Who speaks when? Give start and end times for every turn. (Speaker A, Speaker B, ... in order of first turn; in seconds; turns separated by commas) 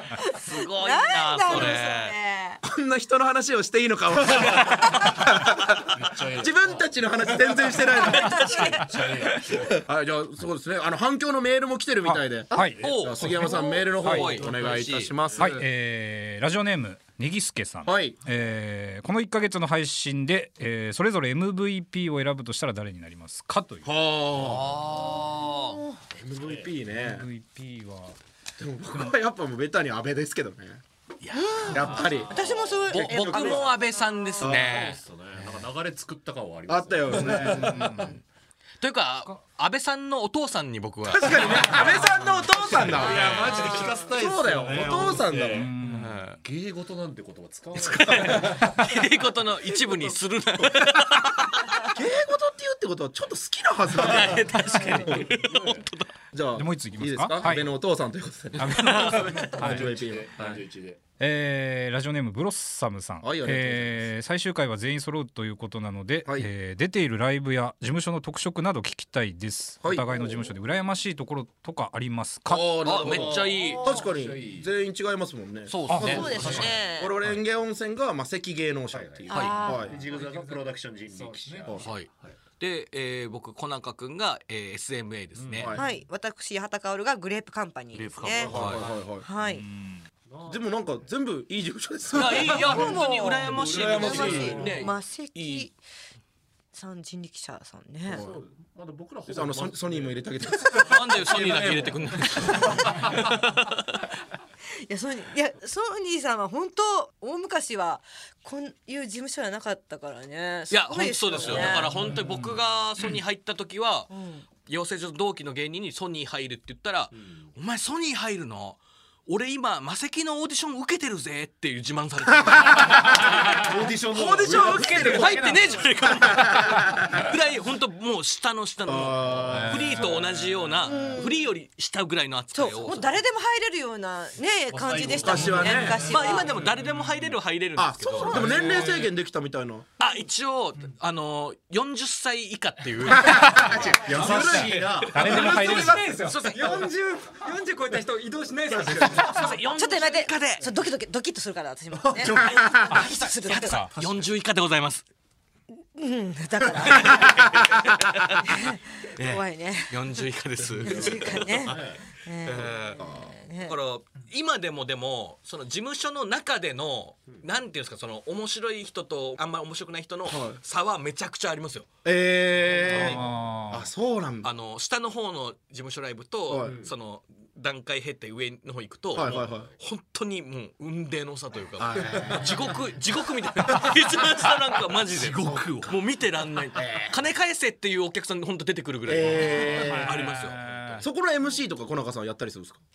Speaker A: 0.2-2.6, Speaker B: 0.5-2.1, Speaker C: 1.5-1.8, Speaker C: 2.6-8.6, Speaker D: 4.3-4.7, Speaker D: 5.9-9.8, Speaker A: 8.1-8.8, Speaker C: 9.7-15.6, Speaker E: 12.1-12.8, Speaker D: 12.6-15.6, Speaker B: 12.8-15.1, Speaker E: 14.0-14.4, Speaker E: 15.4-23.9, Speaker C: 17.9-18.2, Speaker C: 23.9-24.8, Speaker B: 24.4-25.8, Speaker C: 26.2-27.3, Speaker D: 26.4-26.8, Speaker E: 26.9-28.2, Speaker C: 28.6-30.8, Speaker B: 31.2-32.2, Speaker C: 31.7-32.3, Speaker D: 31.8-32.8, Speaker A: 32.3-34.4, Speaker B: 32.9-35.0, Speaker C: 32.9-33.6, Speaker C: 34.4-34.8, Speaker D: 34.4-38.0, Speaker C: 36.7-38.1, Speaker E: 37.4-38.1, Speaker B: 38.8-42.1, Speaker C: 41.0-45.7, Speaker D: 42.8-48.8, Speaker B: 43.0-43.8, Speaker E: 45.4-46.2, Speaker B: 45.9-46.4, Speaker B: 47.8-51.9, Speaker C: 51.9-54.5, Speaker B: 54.0-56.1, Speaker C: 55.0-55.4, Speaker D: 55.0-55.9, Speaker C: 56.3-60.6, Speaker E: 56.5-57.7, Speaker E: 58.6-60.0, Speaker B: 58.8-59.5, Speaker D: 59.3-61.0, Speaker E: 61.2-72.9, Speaker C: 63.2-64.1, Speaker C: 69.8-70.3, Speaker D: 70.2-70.5, Speaker C: 72.5-80.0, Speaker B: 72.8-73.8, Speaker D: 72.9-74.7, Speaker B: 75.7-76.8, Speaker E: 75.9-76.2, Speaker D: 75.9-76.8, Speaker A: 76.0-77.2, Speaker D: 78.9-82.4, Speaker A: 79.3-80.0, Speaker B: 79.3-79.6, Speaker F: 79.9-81.8, Speaker B: 81.8-85.8, Speaker D: 85.3-85.9, Speaker A: 85.7-88.5, Speaker D: 87.9-89.1, Speaker C: 88.5-89.3, Speaker B: 88.5-88.8, Speaker A: 89.2-89.7, Speaker E: 89.5-90.1, Speaker D: 90.3-91.1, Speaker C: 90.5-93.0, Speaker B: 92.1-95.7, Speaker D: 92.4-94.9, Speaker A: 92.7-95.8, Speaker C: 93.5-94.6, Speaker A: 96.7-98.2, Speaker D: 98.1-100.8, Speaker C: 98.1-98.4, Speaker C: 99.3-102.3, Speaker B: 100.8-104.0, Speaker D: 101.3-103.0, Speaker A: 102.5-103.0, Speaker A: 104.8-112.0, Speaker B: 110.7-114.1, Speaker D: 111.3-112.5, Speaker A: 114.1-114.5, Speaker B: 114.6-123.5, Speaker D: 117.1-117.5, Speaker D: 123.2-125.5, Speaker C: 124.1-125.5, Speaker E: 124.5-125.8, Speaker B: 125.0-133.1, Speaker C: 126.2-127.1, Speaker C: 128.9-130.1, Speaker D: 129.0-131.0, Speaker A: 130.8-131.5, Speaker A: 132.5-136.5, Speaker D: 134.7-137.3, Speaker C: 135.2-136.1, Speaker B: 135.7-138.4, Speaker C: 137.8-139.9, Speaker D: 138.2-139.0, Speaker B: 140.0-144.0, Speaker C: 143.1-146.2, Speaker D: 144.0-145.7, Speaker B: 145.0-146.8, Speaker E: 145.1-146.1, Speaker F: 145.5-149.7, Speaker C: 148.7-149.3, Speaker B: 149.1-150.7, Speaker A: 149.8-153.9, Speaker C: 152.1-153.1, Speaker E: 152.9-153.9, Speaker B: 153.5-155.1, Speaker A: 155.9-157.4, Speaker B: 156.9-158.4, Speaker C: 157.0-157.8, Speaker A: 158.4-159.9, Speaker B: 159.2-171.9, Speaker D: 160.8-162.1, Speaker A: 160.8-163.7, Speaker D: 162.6-162.9, Speaker C: 170.3-170.6, Speaker C: 172.1-174.5, Speaker D: 172.9-173.2, Speaker B: 172.9-173.2, Speaker E: 173.0-173.9, Speaker B: 174.4-191.0, Speaker C: 176.5-176.8, Speaker D: 176.6-176.9, Speaker C: 179.1-179.7, Speaker D: 179.2-179.7, Speaker C: 181.8-182.7, Speaker D: 184.9-186.1, Speaker C: 186.7-187.2, Speaker C: 189.1-190.3, Speaker E: 189.7-191.0, Speaker C: 191.0-192.8